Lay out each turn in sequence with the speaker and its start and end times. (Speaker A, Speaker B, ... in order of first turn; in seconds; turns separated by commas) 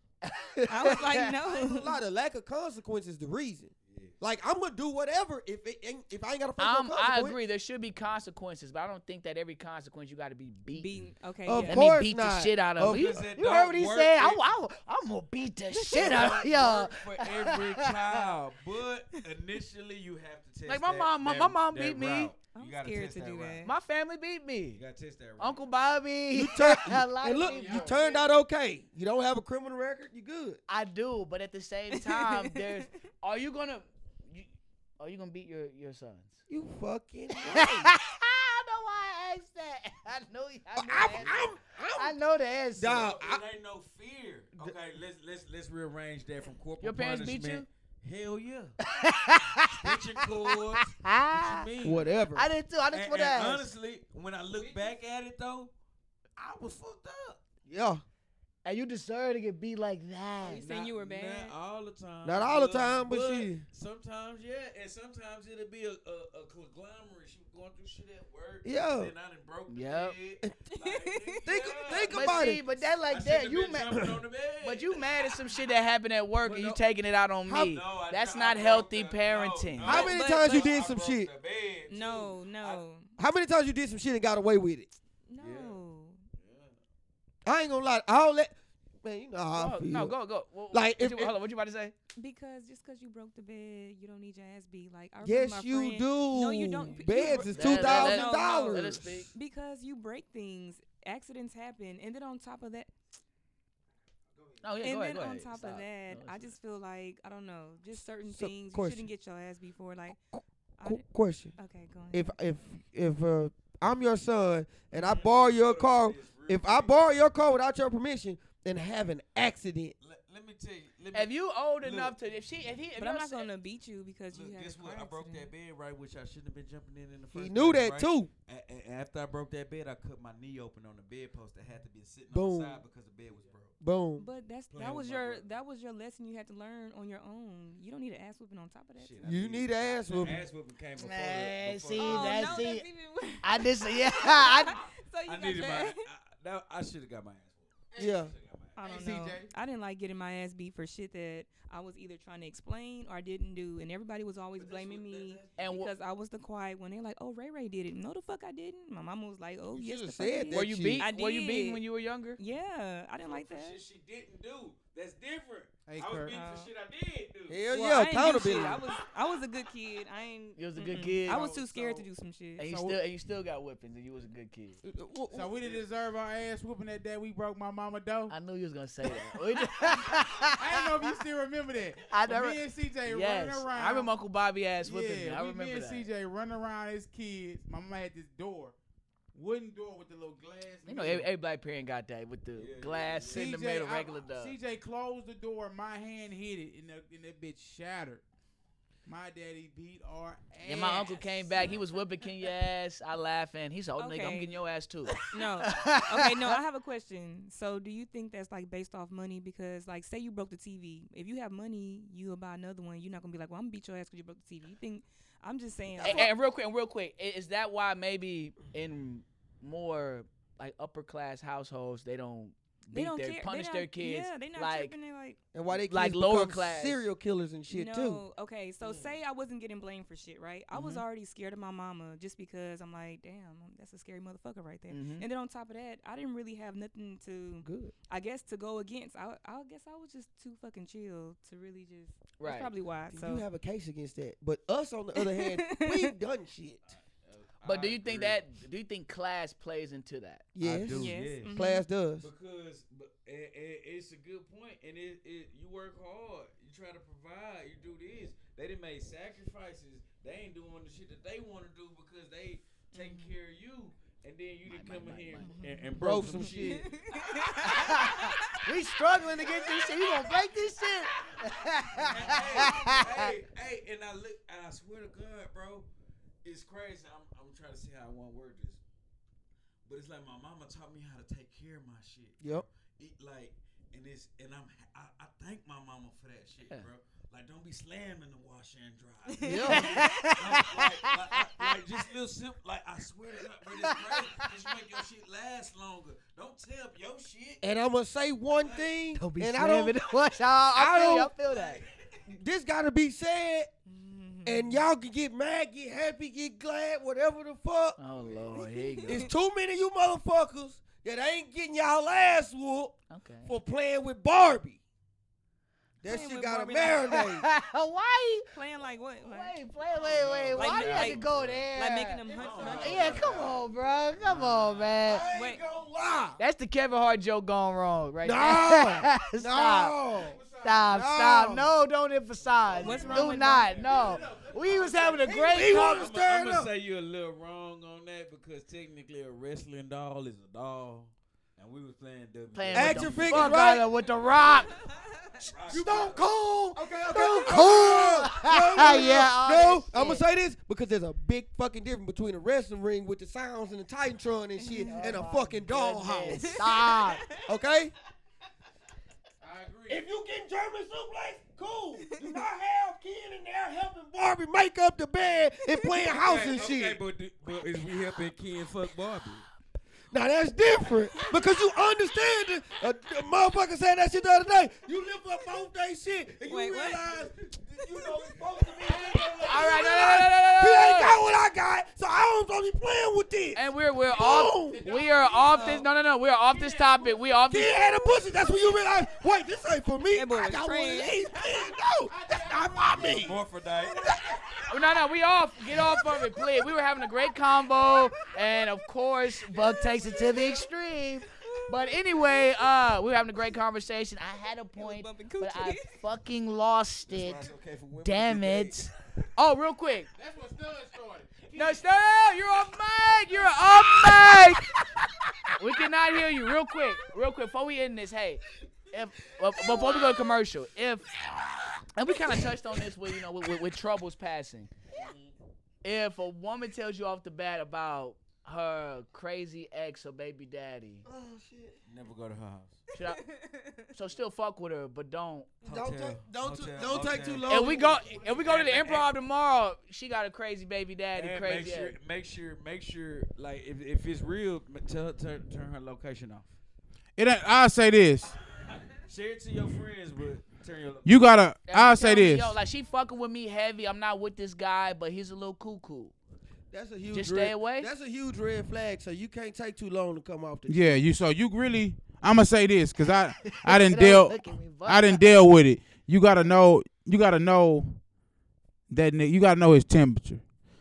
Speaker A: 0.3-1.3, Speaker B: 0.6-7.4, Speaker C: 0.7-2.0, Speaker D: 3.9-4.2, Speaker A: 6.6-10.9, Speaker C: 10.7-11.9, Speaker B: 11.5-13.3, Speaker A: 11.6-18.3, Speaker D: 12.8-14.4, Speaker C: 15.8-16.2, Speaker D: 15.9-23.7, Speaker A: 20.7-22.3, Speaker C: 22.5-23.7, Speaker A: 23.6-24.8, Speaker D: 24.7-25.7, Speaker A: 25.4-28.0, Speaker B: 26.3-30.6, Speaker E: 27.4-28.1, Speaker A: 30.7-36.4, Speaker C: 31.9-32.9, Speaker B: 36.5-37.9, Speaker A: 37.5-41.4, Speaker B: 40.8-42.2, Speaker A: 41.9-43.0, Speaker B: 42.8-43.4, Speaker D: 42.9-48.8, Speaker A: 46.8-47.7, Speaker A: 48.8-51.7, Speaker D: 49.6-52.2, Speaker B: 51.8-52.5, Speaker A: 52.3-53.7, Speaker D: 52.9-55.7, Speaker E: 54.5-55.0, Speaker D: 56.4-57.4, Speaker B: 57.7-58.0, Speaker A: 58.6-60.6, Speaker C: 60.4-61.6, Speaker D: 60.5-75.3, Speaker B: 62.2-63.6, Speaker B: 68.6-69.1, Speaker A: 69.7-70.2, Speaker C: 70.7-71.5, Speaker B: 71.4-72.6, Speaker A: 72.1-74.0, Speaker A: 74.6-80.1, Speaker D: 76.4-76.8, Speaker D: 77.5-82.8, Speaker B: 79.8-81.3, Speaker C: 79.9-80.8, Speaker C: 81.9-83.1, Speaker B: 83.2-84.9, Speaker C: 85.3-86.2, Speaker D: 85.4-85.8, Speaker D: 86.4-86.8, Speaker B: 87.5-90.2, Speaker A: 89.5-92.0, Speaker B: 90.7-91.4, Speaker C: 92.2-102.9, Speaker B: 95.2-99.3, Speaker A: 97.5-99.3, Speaker A: 104.6-106.6, Speaker C: 104.8-110.2, Speaker B: 108.3-109.1, Speaker C: 110.8-111.0, Speaker B: 110.8-111.5, Speaker C: 111.6-112.3, Speaker B: 112.1-119.9, Speaker D: 114.9-117.0, Speaker D: 120.0-122.2, Speaker A: 121.1-123.5, Speaker C: 123.0-125.5, Speaker D: 124.3-133.8, Speaker B: 127.3-128.3, Speaker B: 132.3-132.8, Speaker B: 133.8-134.3, Speaker C: 134.2-139.4, Speaker D: 134.7-135.5, Speaker D: 139.0-142.7, Speaker B: 139.2-140.4, Speaker A: 141.0-142.9, Speaker C: 142.0-146.1, Speaker A: 143.4-144.8, Speaker D: 145.3-148.8, Speaker E: 147.9-148.2, Speaker B: 148.0-148.3, Speaker C: 148.8-161.8, Speaker E: 148.8-149.5, Speaker D: 154.6-155.6, Speaker A: 155.6-155.9, Speaker B: 159.7-161.1, Speaker A: 160.5-162.4, Speaker C: 162.4-163.8, Speaker D: 163.2-167.7, Speaker E: 165.9-166.3, Speaker C: 166.3-166.7, Speaker B: 167.5-168.8, Speaker C: 167.7-172.7, Speaker A: 170.6-171.5, Speaker E: 171.3-172.1, Speaker A: 172.6-174.8, Speaker E: 172.7-173.0, Speaker B: 174.8-175.8, Speaker E: 175.3-178.3, Speaker A: 178.3-180.9, Speaker E: 179.8-184.1, Speaker A: 182.1-186.1, Speaker E: 184.8-188.8, Speaker E: 189.3-191.3, Speaker A: 190.9-194.6, Speaker D: 192.6-193.5, Speaker E: 193.3-198.2, Speaker E: 199.1-201.8, Speaker A: 200.6-206.6, Speaker C: 204.0-204.6, Speaker C: 205.3-216.3, Speaker B: 216.0-216.3, Speaker A: 216.0-224.9, Speaker C: 222.9-225.4, Speaker B: 225.5-228.2, Speaker A: 225.9-227.1, Speaker C: 227.7-243.4, Speaker A: 230.7-231.0, Speaker A: 234.9-235.3, Speaker B: 237.6-237.9, Speaker A: 242.4-242.7, Speaker B: 243.1-246.8, Speaker C: 245.2-246.1, Speaker D: 246.9-248.5, Speaker A: 247.6-250.5, Speaker B: 250.6-252.3, Speaker D: 250.6-251.6, Speaker C: 250.9-251.8, Speaker D: 252.2-267.2, Speaker C: 262.9-263.3, Speaker A: 264.7-265.6, Speaker C: 265.4-268.6, Speaker B: 266.0-266.9, Speaker A: 267.6-273.3, Speaker D: 271.9-275.9, Speaker D: 276.4-278.8, Speaker D: 279.9-297.6, Speaker C: 289.3-290.3, Speaker B: 289.4-290.1, Speaker A: 289.7-291.7, Speaker A: 293.8-294.5, Speaker B: 297.6-300.0, Speaker D: 298.6-298.9, Speaker A: 299.1-301.8, Speaker B: 300.7-301.3, Speaker D: 301.4-302.2, Speaker B: 302.3-303.7, Speaker C: 303.9-304.8, Speaker B: 304.4-308.0, Speaker A: 308.0-309.3, Speaker C: 308.6-309.3, Speaker B: 309.1-314.8, Speaker A: 313.1-313.5, Speaker C: 316.0-317.2, Speaker B: 316.0-317.5, Speaker A: 317.0-318.5, Speaker C: 318.5-319.7, Speaker A: 319.2-325.3, Speaker D: 319.9-321.7, Speaker C: 320.6-323.1, Speaker E: 322.3-323.5, Speaker D: 322.3-325.1, Speaker B: 325.1-326.4, Speaker C: 325.3-325.6, Speaker A: 326.4-330.0, Speaker B: 328.2-331.7, Speaker E: 330.1-331.0, Speaker A: 330.6-336.1, Speaker E: 332.4-335.5, Speaker D: 332.6-334.5, Speaker C: 332.8-333.9, Speaker D: 335.2-344.6, Speaker B: 335.3-336.7, Speaker A: 342.5-344.7, Speaker B: 342.7-343.9, Speaker C: 344.9-345.3, Speaker D: 345.3-346.3, Speaker B: 345.7-356.6, Speaker A: 345.7-350.2, Speaker C: 354.6-355.0, Speaker A: 354.8-357.2, Speaker C: 356.3-357.5, Speaker B: 357.4-357.9, Speaker E: 359.4-360.0, Speaker B: 359.9-367.0, Speaker D: 366.1-369.5, Speaker B: 370.1-384.8, Speaker C: 376.5-377.1, Speaker E: 378.8-380.2, Speaker A: 379.4-381.2, Speaker A: 383.6-387.8, Speaker E: 384.2-385.9, Speaker C: 385.5-385.9, Speaker E: 386.5-387.2, Speaker B: 387.5-393.4, Speaker C: 390.1-391.3, Speaker E: 392.1-394.6, Speaker D: 393.1-394.1, Speaker A: 394.7-407.5, Speaker E: 399.6-400.6, Speaker C: 401.4-402.7, Speaker C: 404.8-406.0, Speaker D: 407.1-408.8, Speaker A: 408.0-410.1, Speaker E: 410.1-411.9, Speaker A: 411.6-414.7, Speaker A: 415.6-421.1, Speaker A: 421.9-424.7, Speaker A: 425.8-431.1, Speaker B: 431.1-431.8, Speaker D: 431.9-432.8, Speaker A: 433.0-433.2, Speaker C: 433.0-433.9, Speaker A: 433.9-435.5, Speaker D: 435.6-437.6, Speaker B: 435.6-438.2, Speaker A: 437.5-442.0, Speaker D: 438.2-439.1, Speaker D: 441.1-446.5, Speaker E: 447.2-448.3, Speaker D: 449.1-451.3, Speaker E: 451.1-452.6, Speaker A: 451.7-456.1, Speaker B: 456.7-461.0, Speaker A: 457.1-457.9, Speaker E: 460.7-468.0, Speaker A: 463.4-465.4, Speaker E: 468.9-470.4